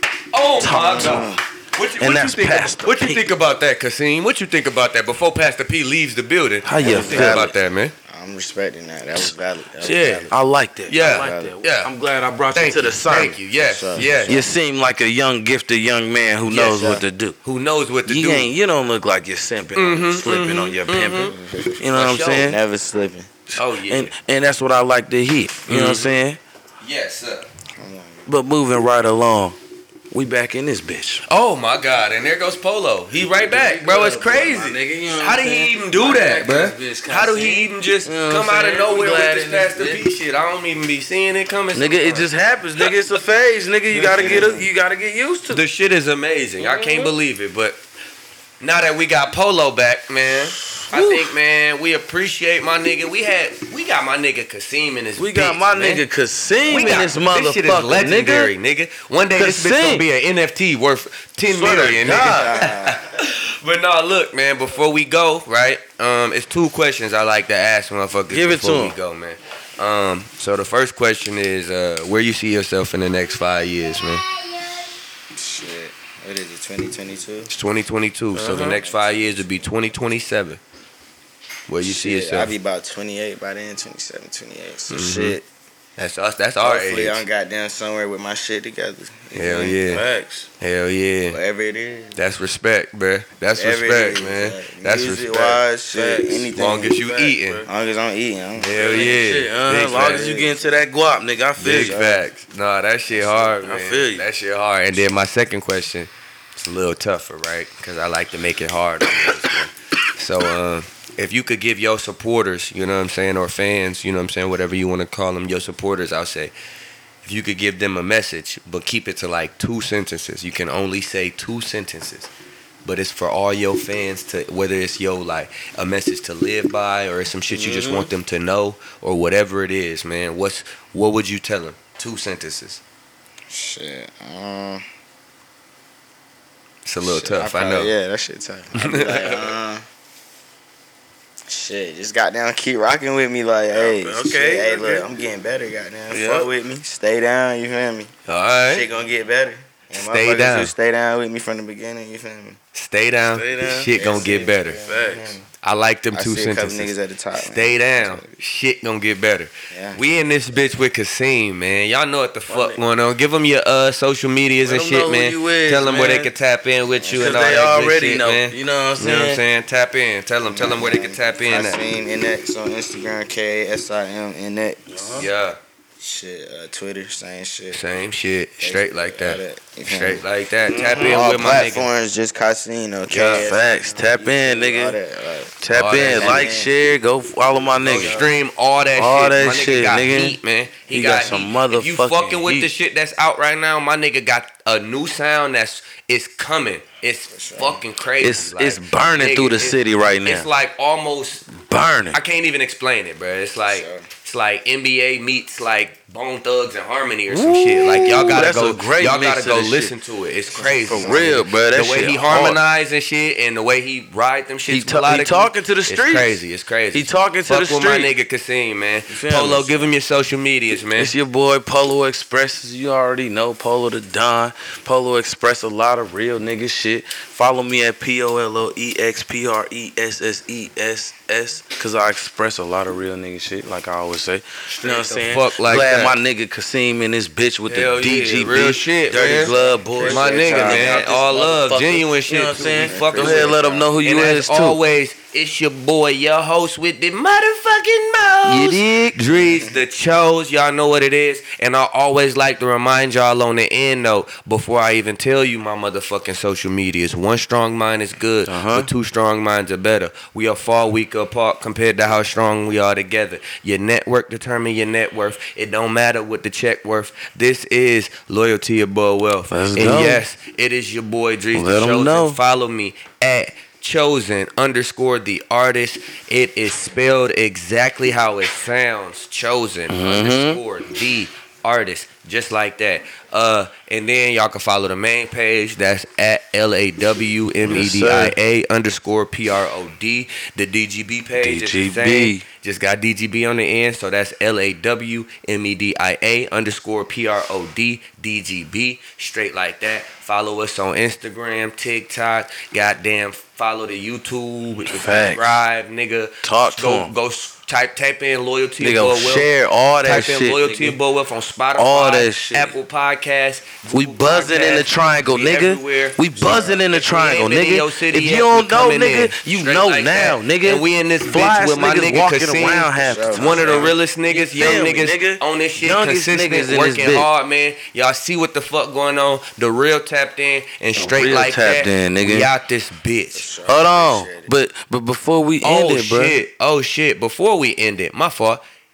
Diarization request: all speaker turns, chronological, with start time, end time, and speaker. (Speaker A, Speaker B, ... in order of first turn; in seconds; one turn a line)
Speaker A: 0.3-7.9
Speaker B: 0.6-1.4
Speaker C: 0.9-1.4
Speaker B: 2.0-3.3
Speaker B: 6.6-7.5
Speaker C: 6.8-7.5
Speaker C: 8.1-10.3
Speaker B: 9.8-13.4
Speaker A: 9.8-10.3
Speaker A: 10.9-11.9
Speaker C: 10.9-11.6
Speaker A: 12.5-14.4
Speaker C: 13.6-14.4
Speaker B: 14.2-17.4
Speaker A: 16.5-16.9
Speaker C: 16.6-17.0
Speaker A: 17.4-18.5
Speaker B: 18.1-22.6
Speaker A: 19.7-21.3
Speaker C: 21.2-21.9
Speaker A: 21.9-22.6
Speaker C: 22.4-23.3
Speaker B: 23.5-26.4
Speaker A: 23.6-24.1
Speaker A: 25.7-26.2
Speaker A: 26.8-27.5
Speaker C: 27.8-28.3
Speaker B: 28.3-29.6
Speaker B: 30.1-31.2
Speaker A: 31.3-42.3
Speaker B: 33.5-40.0
Speaker B: 41.7-45.6
Speaker A: 44.0-44.5
Speaker C: 44.0-44.6
Speaker A: 45.5-47.8
Speaker B: 46.6-47.1
Speaker A: 48.6-56.0
Speaker B: 50.8-51.3
Speaker B: 55.2-58.5
Speaker A: 56.6-74.2
Speaker B: 59.3-60.0
Speaker B: 61.5-62.7
Speaker C: 62.1-63.0
Speaker B: 68.3-69.0
Speaker C: 75.3-77.5
Speaker A: 77.5-80.6
Speaker B: 78.3-78.8
Speaker C: 78.8-79.9
Speaker A: 81.7-82.5
Speaker C: 81.8-85.4
Speaker A: 84.9-85.4
Speaker A: 86.0-87.2
Speaker C: 86.6-89.9
Speaker A: 89.3-90.0
Speaker B: 89.9-90.5
Speaker A: 90.6-91.4
Speaker C: 91.3-92.2
Speaker A: 92.2-95.6
Speaker C: 93.5-97.0
Speaker B: 95.9-97.7
Speaker A: 96.5-97.6
Speaker C: 97.7-99.1
Speaker A: 98.6-100.4
Speaker B: 98.7-102.0
Speaker C: 100.0-100.5
Speaker A: 101.6-116.5
Speaker C: 101.6-102.3
Speaker C: 103.1-103.5
Speaker B: 103.5-104.2
Speaker A: 117.2-122.3
Speaker A: 122.8-132.8
Speaker B: 127.5-128.1
Speaker C: 133.5-134.8
Speaker A: 136.8-137.9
Speaker C: 137.0-139.8
Speaker A: 138.7-139.6
Speaker C: 141.5-148.1
Speaker B: 143.7-145.1
Speaker B: 146.1-146.5
Speaker A: 148.3-148.9
Speaker C: 148.7-152.6
Speaker A: 150.0-150.7
Speaker A: 152.7-154.8
Speaker B: 153.3-154.0
Speaker C: 153.9-155.4
Speaker B: 154.8-155.4
Speaker A: 155.6-171.8
Speaker C: 156.1-158.3
Speaker C: 159.7-160.0
Speaker B: 162.5-162.8
Speaker B: 164.6-166.3
Speaker C: 166.9-167.6
Speaker B: 167.1-169.4
Speaker C: 170.5-175.2
Speaker B: 174.9-175.3
Speaker A: 175.2-175.6
Speaker C: 176.0-177.8
Speaker A: 177.7-181.9
Speaker C: 178.6-180.2
Speaker B: 180.7-181.3
Speaker C: 180.9-186.7
Speaker A: 183.1-183.5
Speaker B: 183.3-185.0
Speaker B: 185.6-188.2
Speaker A: 185.7-186.5
Speaker A: 187.8-201.5
Speaker C: 187.8-188.3
Speaker B: 188.9-190.4
Speaker B: 190.9-192.7
Speaker C: 197.3-197.8
Speaker B: 198.2-200.5
Speaker B: 201.5-202.2
Speaker A: 202.1-221.1
Speaker C: 203.7-204.1
Speaker B: 207.3-209.9
Speaker C: 210.5-211.4
Speaker B: 210.6-212.6
Speaker B: 214.7-216.4
Speaker B: 216.9-218.1
Speaker B: 219.1-219.7
Speaker B: 220.9-244.8
Speaker A: 234.9-236.2
Speaker A: 237.7-239.5
Speaker C: 239.1-241.1
Speaker A: 240.0-309.5
Speaker C: 242.6-243.9
Speaker B: 248.4-249.3
Speaker B: 258.5-258.9
Speaker B: 269.5-270.2
Speaker B: 271.5-272.4
Speaker B: 279.9-280.6
Speaker B: 287.6-288.4
Speaker B: 291.4-292.4
Speaker B: 304.8-305.4
Speaker B: 306.4-307.1
Speaker B: 308.8-311.0
Speaker A: 310.0-316.2
Speaker B: 311.8-312.7
Speaker B: 313.9-327.3
Speaker C: 316.4-316.7
Speaker A: 316.8-333.5
Speaker C: 323.0-323.9
Speaker B: 330.9-332.5
Speaker C: 333.3-334.5
Speaker B: 333.6-336.4
Speaker A: 335.6-338.6